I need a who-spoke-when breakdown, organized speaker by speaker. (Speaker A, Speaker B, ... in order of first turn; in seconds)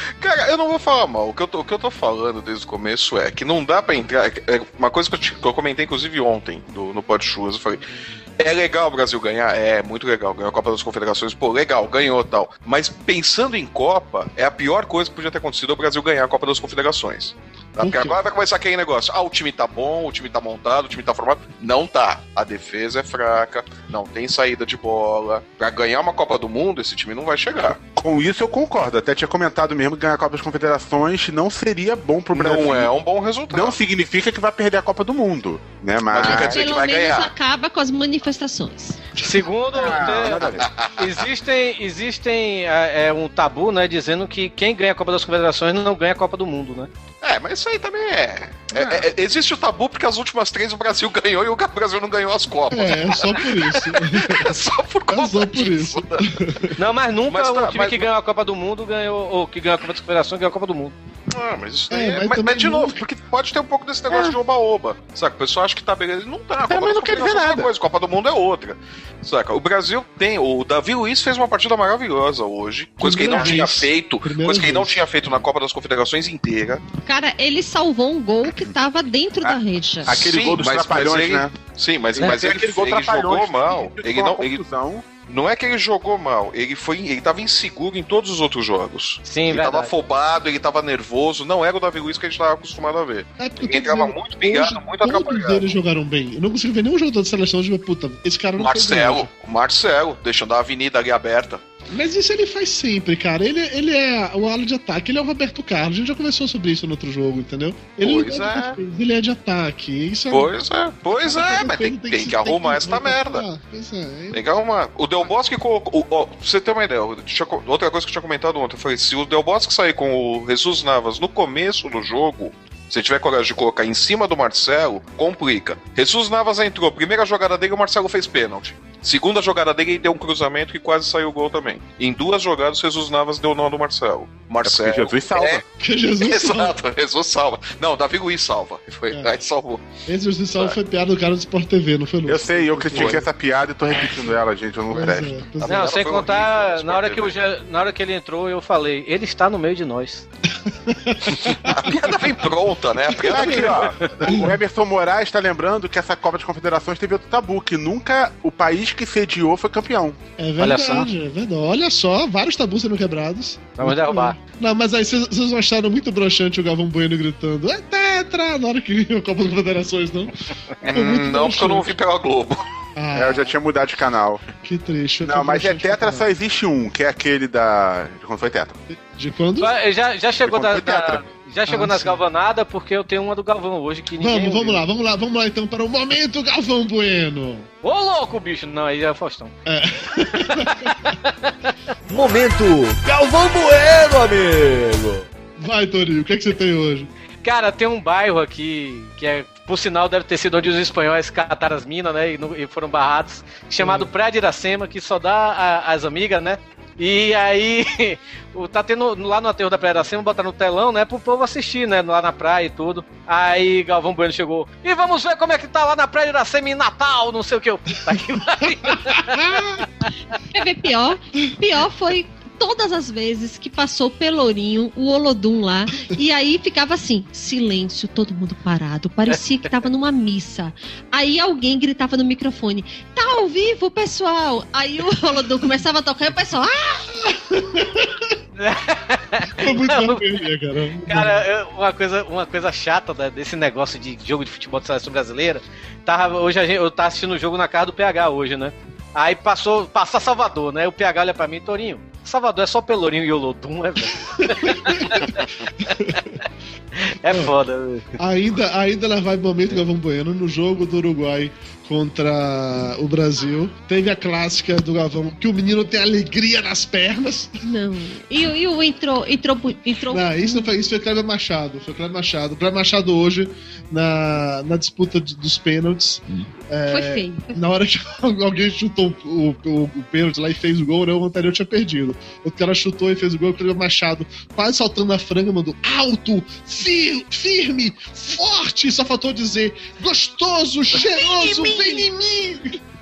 Speaker A: 0.2-27.8, 32.3-33.8, 36.1-37.3, 40.4-41.2, 47.2-56.7, 57.3-58.1, 61.3-76.8, 80.0-84.6, 85.2-95.7, 98.6-101.6, 108.0-108.8, 110.3-113.4, 114.3-135.6, 136.2-139.8, 142.9-143.2, 145.6-147.3, 151.4-153.9, 170.8-172.6
Speaker B: 17.8-18.2, 52.7-54.5, 55.1-56.7, 61.9-63.0, 73.0-75.0, 93.4-99.3, 101.9-110.5, 111.1-114.4, 135.8-136.8, 140.1-143.3, 144.9-146.0, 150.6-151.9, 153.2-154.6, 160.4-171.9, 172.9-173.5, 174.6-176.3, 178.9-179.7, 181.7-182.2, 184.2-187.7, 189.7-191.1, 195.6-197.1, 203.8-204.1, 219.2-219.8, 237.2-238.3, 239.5-241.4, 254.4-255.2, 255.8-256.4, 257.2-257.5, 258.2-267.6, 270.1-292.8
Speaker C: 27.6-32.9, 33.5-36.7, 39.7-40.7, 48.7-49.1, 64.1-64.4, 66.7-67.7, 73.3-73.6, 79.4-81.5, 82.2-85.0, 134.6-135.6, 142.2-145.4, 153.2-160.2, 173.2-174.5, 175.2-178.8, 180.4-181.2
Speaker D: 36.2-39.0, 77.0-80.2, 220.5-237.3, 267.6-270.7, 276.9-277.6, 290.9-292.1
Speaker E: 39.1-46.9, 56.8-60.9, 89.2-89.9, 145.7-150.2, 160.6-161.1, 163.8-164.3, 179.6-184.8, 187.8-189.5, 191.1-191.7, 197.4-220.1, 238.6-240.3, 241.1-255.5, 257.0-258.1
Speaker F: 192.1-195.3